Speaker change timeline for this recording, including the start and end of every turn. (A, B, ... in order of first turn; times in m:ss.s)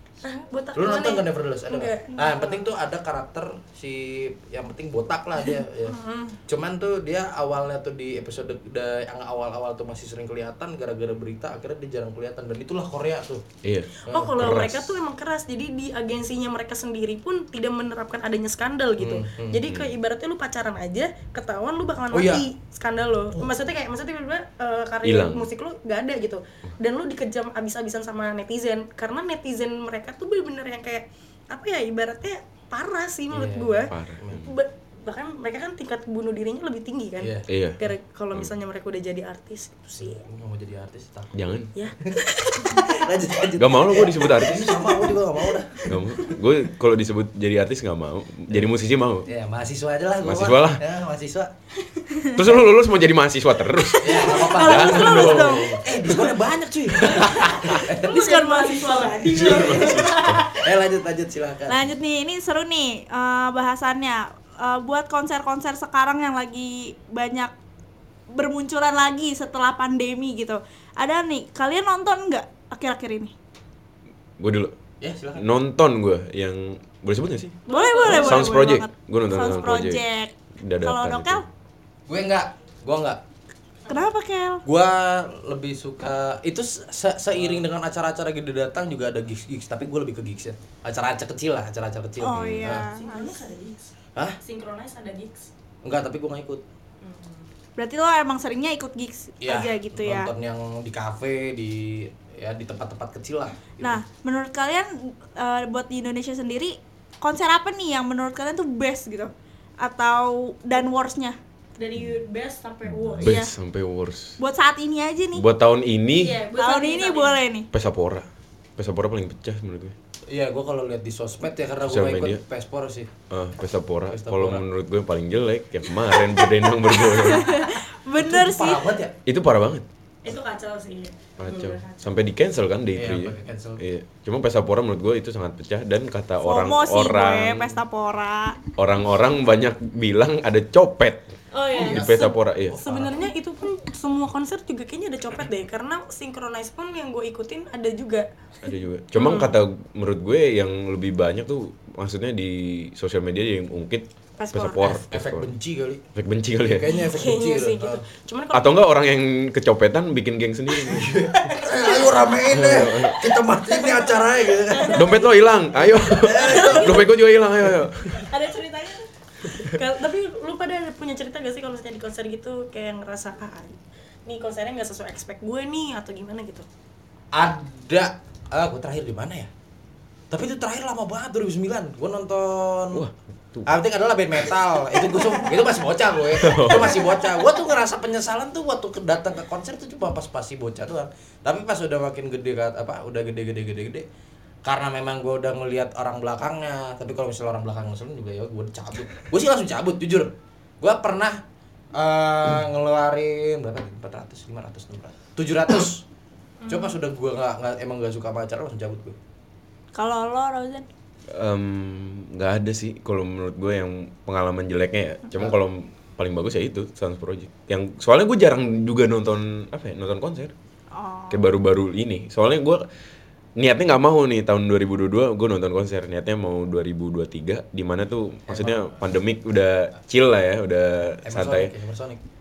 0:00.2-0:02.6 A
0:00.8-0:13.4 B
0:05.5-0:06.4 A
0:13.6-0:14.9 C
0:14.0-0:40.2 A
0:14.1-0:14.6 B
0:19.0-0:19.6 B
0:19.7-0:19.9 C
0:22.1-0:22.5 B
0:25.0-0:25.5 C
0:33.3-0:34.4 B
0:33.9-0:34.5 C
0:37.2-0:37.5 B
0:37.5-0:37.8 C
0:40.0-0:45.9 B
0:41.3-0:41.7 C
0:41.8-0:43.0 A
0:43.6-0:44.9 C
0:45.9-0:49.3 C
0:49.2-0:51.5 B
0:50.2-0:50.8 C
0:52.3-0:55.8 C
0:54.0-0:58.5 B
0:54.1-0:55.8 D
0:56.9-0:57.8 C
0:57.1-1:00.7 A
0:58.0-0:59.8 D
0:59.3-1:00.5 C
0:59.4-1:01.8 B
1:01.7-1:07.5 D
1:08.3-1:13.3 D
1:14.4-1:14.8 C
1:15.0-1:15.5 B
1:15.4-1:20.0 C
1:17.6-1:18.7 A
1:17.7-1:21.4 D
1:20.6-1:21.5 C
1:22.1-1:23.2 B
1:23.9-1:24.6 D
1:24.6-1:33.0 B
1:32.2-1:33.5 D
1:32.3-1:32.8 C
1:32.8-1:35.5 A
1:35.8-1:36.6 B
1:37.0-1:37.5 A
1:37.8-1:40.3 D
1:39.4-1:44.0 B
1:43.8-1:51.4 D
1:51.8-1:53.4 A
1:52.9-1:54.4 C
1:53.2-1:53.5 D
1:54.4-1:55.5 D
1:55.4-1:56.4 C
1:56.1-1:57.4 A
1:56.5-1:57.7 D
1:57.7-2:00.0 C
2:00.3-2:03.1 B
2:01.9-2:02.4 C
2:03.3-2:07.7 C
2:04.1-2:04.7 B
2:06.1-2:08.9 D
2:08.2-2:09.2 B
2:09.3-2:09.9 C
2:10.2-2:12.0 A
2:11.4-2:17.8 C
2:12.9-2:13.8 B
2:16.4-2:18.6 D
2:18.8-2:22.8 C
2:21.5-2:28.3 A
2:21.7-2:23.2 B
2:28.6-2:35.5 C
2:29.2-2:29.6 A
2:34.4-2:35.0 A
2:34.8-2:36.0 B
2:36.2-2:36.9 C
2:36.6-2:38.1 B
2:36.9-2:38.9 A
2:38.5-2:41.1 C
2:40.9-2:42.3 A
2:40.9-2:45.2 B
2:42.5-2:43.3 C
2:43.7-2:47.1 A
2:44.9-2:48.3 C
2:46.2-2:47.0 B
2:48.1-2:56.7 A
2:49.5-2:49.7 C
2:57.3-2:59.5 B
3:00.3-3:03.0 B
3:02.9-3:03.7 C
3:03.7-3:14.1 B
3:06.4-3:07.2 C
3:14.6-3:21.4 B
3:22.0-3:26.1 B
3:26.6-3:27.0 A
3:26.7-3:29.2 B
3:29.9-3:30.9 D
3:31.3-3:40.5 C
3:40.9-3:41.4 D
3:41.3-3:42.8 C
3:43.6-3:51.7 C
3:48.5-3:49.0 B
3:51.2-3:52.2 B